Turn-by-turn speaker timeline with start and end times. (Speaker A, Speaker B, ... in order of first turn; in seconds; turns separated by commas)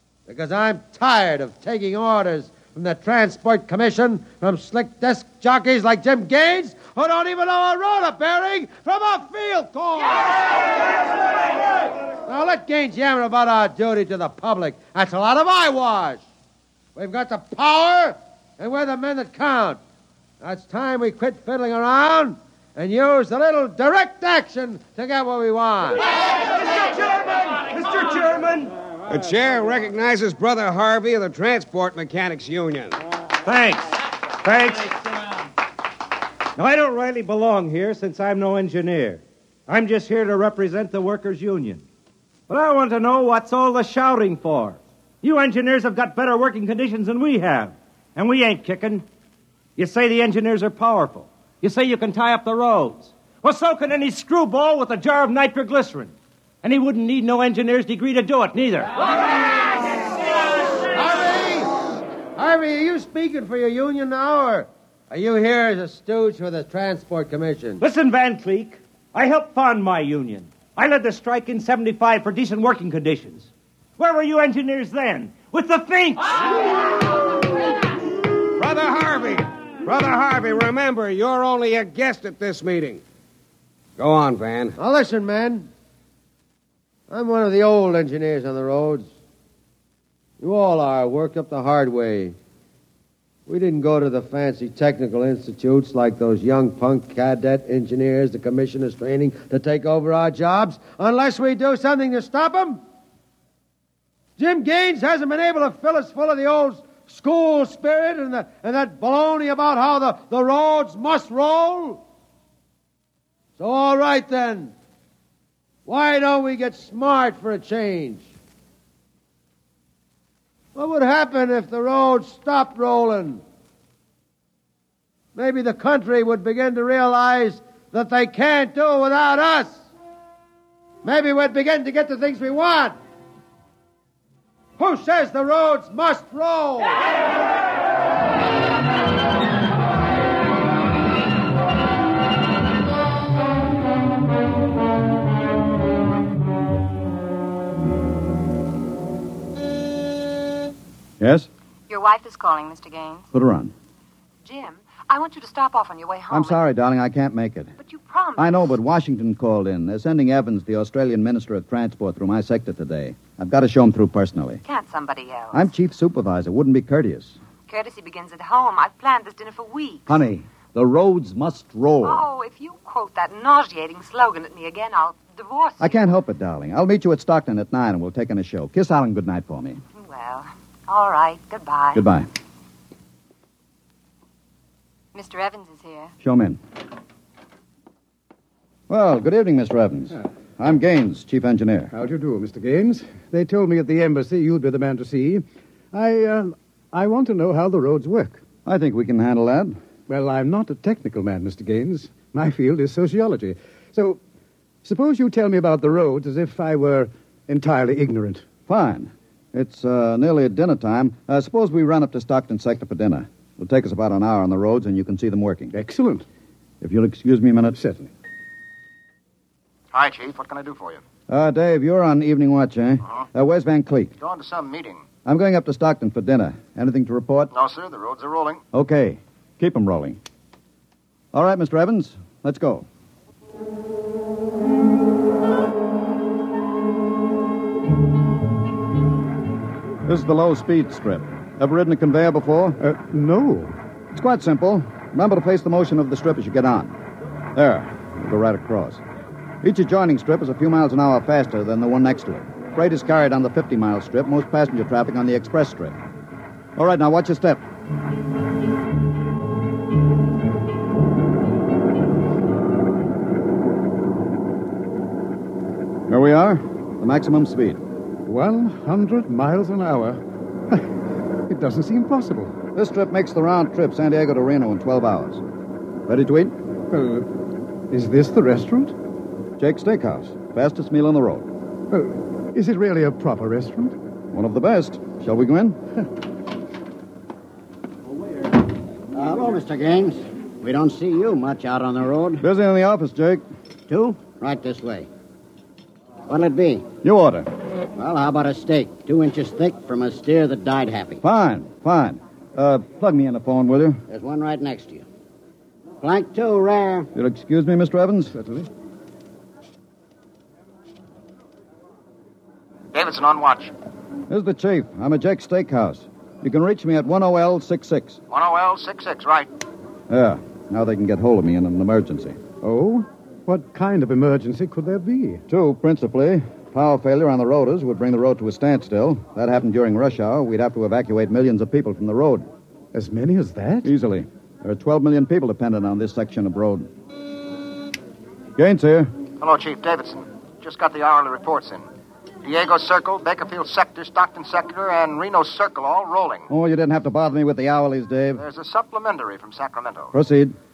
Speaker A: 0.3-10.4, Speaker A: 12.3-16.2, Speaker A: 17.0-19.8, Speaker A: 20.4-26.0, Speaker B: 27.6-28.7, Speaker C: 29.1-33.0, Speaker B: 33.5-33.9, Speaker B: 34.4-35.1, Speaker B: 36.6-41.8, Speaker B: 42.5-49.0, Speaker B: 49.8-58.9, Speaker A: 60.9-61.8, Speaker A: 62.4-67.8, Speaker B: 67.8-76.4, Speaker C: 78.5-83.0, Speaker C: 84.0-84.8, Speaker A: 84.8-85.7, Speaker A: 87.1-89.1, Speaker A: 90.4-92.4, Speaker A: 93.5-102.8, Speaker A: 104.4-112.0, Speaker A: 113.6-114.7, Speaker A: 115.9-118.3, Speaker A: 120.8-123.4, Speaker A: 125.3-129.8, Speaker A: 131.0-133.0, Speaker A: 134.8-137.0, Speaker D: 151.2-151.5, Speaker E: 151.9-153.2, Speaker D: 153.3-153.7, Speaker E: 154.4-156.6, Speaker D: 156.3-157.7, Speaker E: 157.8-158.8, Speaker D: 158.4-164.6, Speaker E: 164.7-165.6, Speaker D: 165.5-167.4, Speaker E: 167.7-170.2, Speaker D: 170.1-172.2, Speaker E: 172.0-176.0, Speaker D: 175.8-179.8, Speaker E: 180.0-182.0, Speaker D: 181.9-182.3, Speaker E: 185.1-186.1, Speaker D: 186.2-186.6, Speaker D: 188.9-191.9, Speaker F: 191.9-198.4, Speaker D: 198.7-199.8, Speaker F: 200.1-204.2, Speaker F: 204.8-208.5, Speaker D: 208.7-215.7, Speaker F: 215.7-216.2, Speaker D: 216.8-217.8, Speaker F: 217.8-218.1, Speaker G: 219.9-221.0, Speaker D: 221.3-224.1, Speaker G: 224.2-225.0, Speaker D: 225.3-227.5, Speaker G: 227.5-228.6, Speaker D: 228.7-230.2, Speaker D: 231.3-232.9, Speaker D: 240.1-242.8, Speaker F: 242.8-243.8, Speaker D: 244.1-246.9, Speaker D: 247.6-249.0, Speaker D: 249.6-256.0, Speaker D: 256.8-257.6, Speaker D: 266.1-267.8, Speaker F: 268.2-272.6, Speaker D: 272.8-275.4, Speaker D: 276.1-276.6, Speaker F: 276.9-277.3, Speaker F: 277.9-278.9, Speaker D: 279.6-281.5, Speaker F: 281.9-284.0, Speaker D: 284.3-285.8, Speaker H: 289.2-292.4, Speaker D: 292.4-293.4, Speaker H: 293.9-295.1, Speaker H: 296.3-296.9, Speaker D: 297.0-297.5, Speaker H: 298.0-301.2, Speaker D: 301.2-304.0, Speaker H: 304.1-305.1, Speaker H: 306.0-307.1, Speaker D: 307.1-308.4, Speaker F: 308.3-308.7, Speaker G: 312.9-313.7, Speaker D: 314.3-318.2, Speaker G: 318.3-319.5, Speaker D: 320.1-322.4, Speaker F: 322.6-325.4, Speaker D: 325.5-332.5, Speaker F: 332.9-333.9, Speaker D: 333.8-336.9, Speaker D: 338.6-339.1, Speaker G: 339.4-341.9, Speaker G: 342.4-346.5, Speaker D: 346.5-348.4, Speaker G: 348.4-350.1, Speaker D: 350.1-350.6